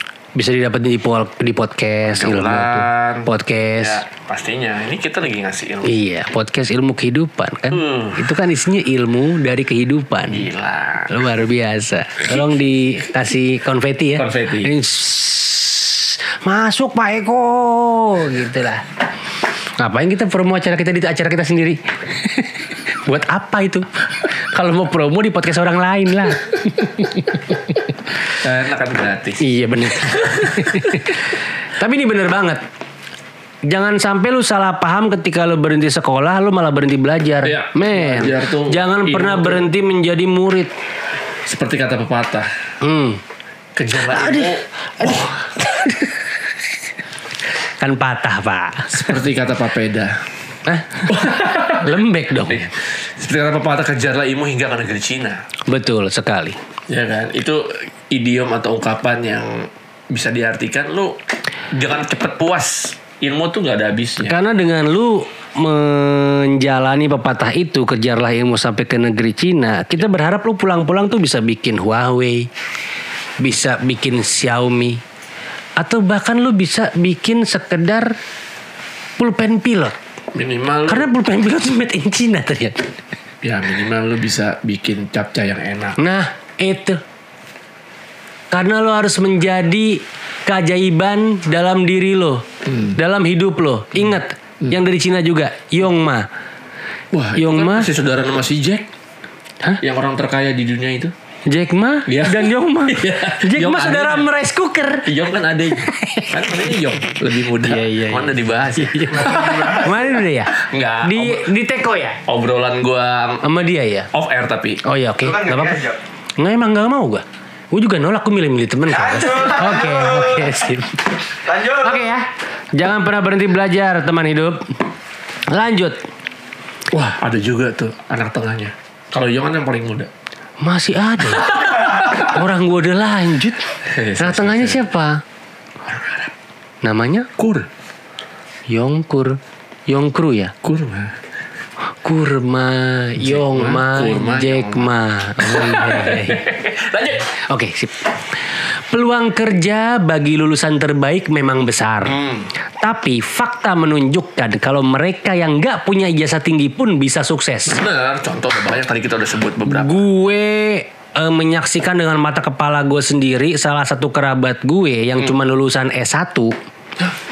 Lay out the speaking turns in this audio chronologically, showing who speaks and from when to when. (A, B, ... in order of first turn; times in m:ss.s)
0:00.4-0:04.0 A
0:02.0-0:06.0 B
0:05.8-0:10.5 A
0:07.7-0:08.3 B
0:10.2-0:11.2 B
0:11.1-0:18.8 A
0:12.3-0:12.6 B
0:14.2-0:14.7 B
0:19.8-0:27.8 A
0:28.4-0:31.2 B
0:29.4-0:32.6 A
0:33.7-0:40.7 A
0:37.4-0:39.7 B
0:41.5-0:42.5 B
0:42.8-0:43.2 A
0:43.8-0:45.5 B
0:44.0-0:46.2 A
0:47.8-0:49.2 A
0:48.9-0:50.2 B
0:50.7-0:52.7 A
0:51.1-0:55.4 B
0:55.7-0:56.6 A
0:56.9-1:01.2 B
1:01.7-1:04.4 B
1:04.2-1:12.5 A
1:13.4-1:15.0 A
1:15.8-1:18.2 A
1:19.2-1:19.9 A
1:20.3-1:21.1 B
1:20.9-1:22.9 A
1:23.4-1:26.0 B
1:26.0-1:27.0 A
1:28.5-1:36.3 A
1:32.7-1:32.9 B
1:37.1-1:38.9 B
1:37.4-1:37.9 A
1:39.8-1:41.1 B
1:41.5-1:45.1 A
1:42.1-1:44.3 B
1:45.1-1:51.5 B
1:45.8-1:46.6 A
1:47.6-1:52.2 A
1:49.2-1:49.9 C
1:52.3-1:53.4 B
1:53.4-1:54.1 A
1:54.1-1:54.8 B
1:54.8-1:55.8 A
1:55.2-1:56.0 C
1:56.4-2:01.0 A
1:58.9-2:00.6 C
2:01.4-2:02.1 C
2:01.7-2:04.7 A
2:05.5-2:06.0 A
2:06.9-2:10.1 B
2:10.6-2:15.2 A
2:11.4-2:12.4 B
2:13.8-2:14.9 B
2:15.8-2:16.3 B
2:16.8-2:17.3 A
2:17.4-2:17.7 B
2:18.7-2:20.5 A
2:20.6-2:21.2 B
2:22.0-2:26.5 A
2:23.2-2:27.3 B
2:27.5-2:28.0 A
2:28.9-2:32.3 A
2:32.1-2:32.5 B
2:32.8-2:37.8 A
2:37.7-2:40.0 B
2:39.6-2:46.6 A